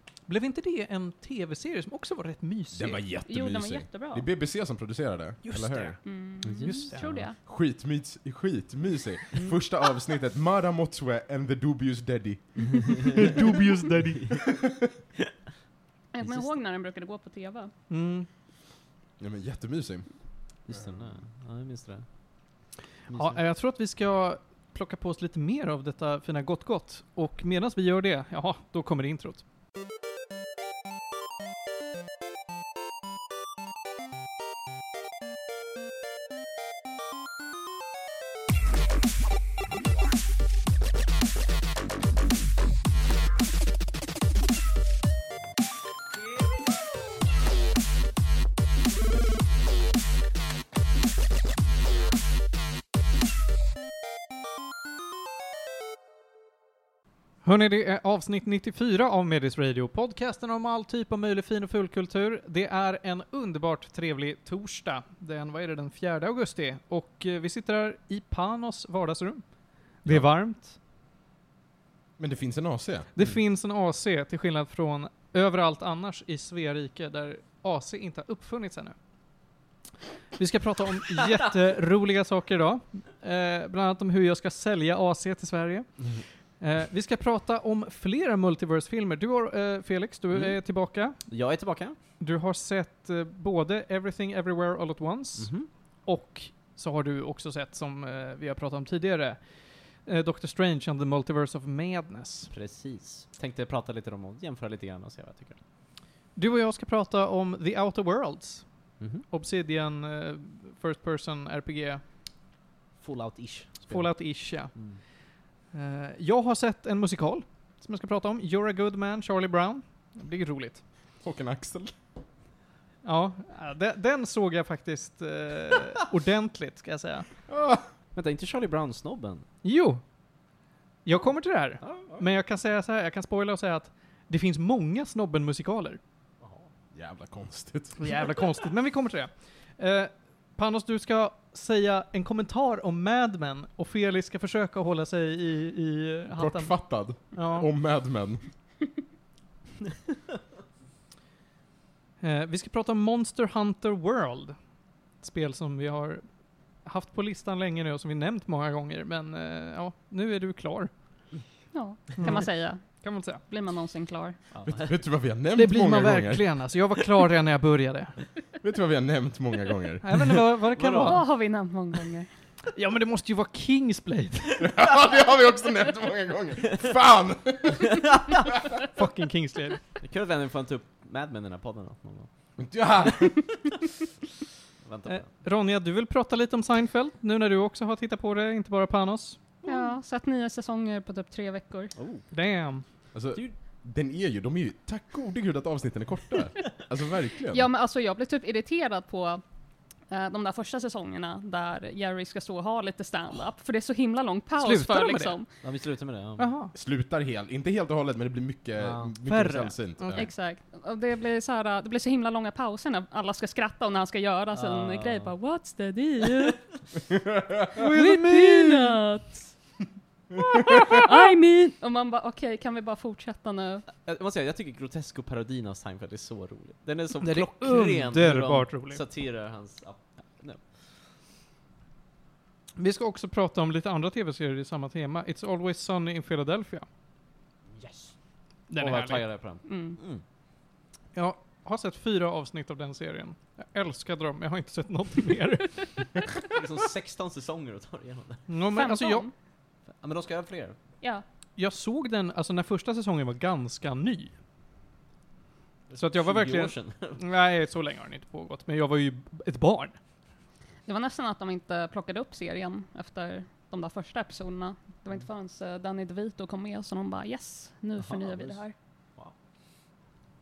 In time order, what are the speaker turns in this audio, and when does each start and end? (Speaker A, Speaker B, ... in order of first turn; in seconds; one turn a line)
Speaker A: 0.3-3.0
Speaker B: 2.7-6.0
Speaker C: 3.2-4.3
Speaker A: 5.4-6.0
Speaker C: 6.0-7.4
Speaker D: 6.4-7.2
Speaker A: 6.6-7.1
Speaker B: 6.6-13.4
Speaker D: 12.8-13.3
Speaker A: 13.2-14.4
Speaker D: 14.1-14.4
Speaker B: 14.4-14.9
Speaker C: 16.1-17.7
Speaker D: 16.2-16.5
Speaker A: 17.9-18.3
Speaker B: 19.2-20.1
Speaker D: 20.6-22.1
Speaker B: 20.7-21.0
Speaker D: 23.1-23.4
Speaker A: 23.1-29.4
Speaker A: 57.4-69.4
Speaker A: 70.0-70.8
Speaker B: 72.2-73.1
Speaker A: 73.2-78.9
Speaker A: 80.3-85.9
Speaker A: 86.6-91.2
Speaker D: 90.3-90.6
Speaker D: 91.3-92.0
Speaker A: 92.2-95.5
Speaker D: 95.4-95.7
Speaker A: 96.0-99.4
Speaker A: 100.0-102.5
Speaker D: 102.5-105.6
Speaker A: 106.3-108.6
Speaker A: 109.3-112.0
Speaker D: 113.0-114.1
Speaker A: 113.9-114.7
Speaker D: 114.7-115.0
Speaker A: 115.7-120.8
Speaker B: 121.2-121.9
Speaker A: 123.0-127.3
Speaker B: 127.5-127.8
Speaker D: 128.1-129.4
Speaker A: 129.6-130.0
Speaker A: 131.1-136.0
Speaker D: 131.8-132.3
Speaker D: 136.4-136.7
Speaker B: 136.9-138.1
Speaker A: 138.0-146.7
Speaker B: 146.3-148.4
Speaker A: 147.3-147.7
Speaker A: 152.2-154.6
Speaker A: 155.2-156.2
Speaker A: 156.8-160.9
Speaker C: 161.7-164.3
Speaker A: 162.2-163.4
Speaker D: 164.5-164.9
Speaker B: 164.6-166.4
Speaker A: 165.5-168.1
Speaker B: 168.6-170.4
Speaker A: 170.0-171.2
Speaker D: 170.7-171.2
Speaker C: 171.0-172.3
Speaker A: 172.7-174.7
Speaker B: 174.6-178.7
Speaker A: 178.8-179.8
Speaker D: 180.0-182.3
Speaker B: 182.6-183.7
Speaker D: 184.8-185.3
Speaker A: 185.1-189.4
Speaker D: 189.6-189.9
Speaker C: 189.6-191.9
Speaker D: 191.9-192.2
Speaker A: 192.3-192.8
Speaker B: 193.1-197.7
Speaker C: 197.5-199.4
Speaker C: 200.1-205.5
Speaker A: 204.6-205.4
Speaker D: 205.6-206.5
Speaker A: 206.4-206.7
Speaker B: 206.7-210.3
Speaker D: 208.8-209.1
Speaker A: 209.2-210.2
Speaker C: 210.1-216.8
Speaker D: 214.5-215.3
Speaker B: 217.1-217.7
Speaker C: 217.7-219.5
Speaker A: 217.8-219.0
Speaker C: 220.3-223.8
Speaker D: 224.0-230.6
Speaker A: 227.2-229.0
Speaker A: 232.8-236.8
Speaker D: 237.8-238.1
Speaker A: 238.7-239.2
Speaker D: 238.8-240.2
Speaker C: 239.7-240.0
Speaker A: 241.1-246.2
Speaker D: 246.5-248.4
Speaker A: 248.5-249.2
Speaker C: 248.7-249.3
Speaker D: 250.0-250.8
Speaker A: 251.6-254.3
Speaker D: 255.9-257.2
Speaker A: 256.0-259.9
Speaker C: 260.9-268.7
Speaker D: 268.0-268.6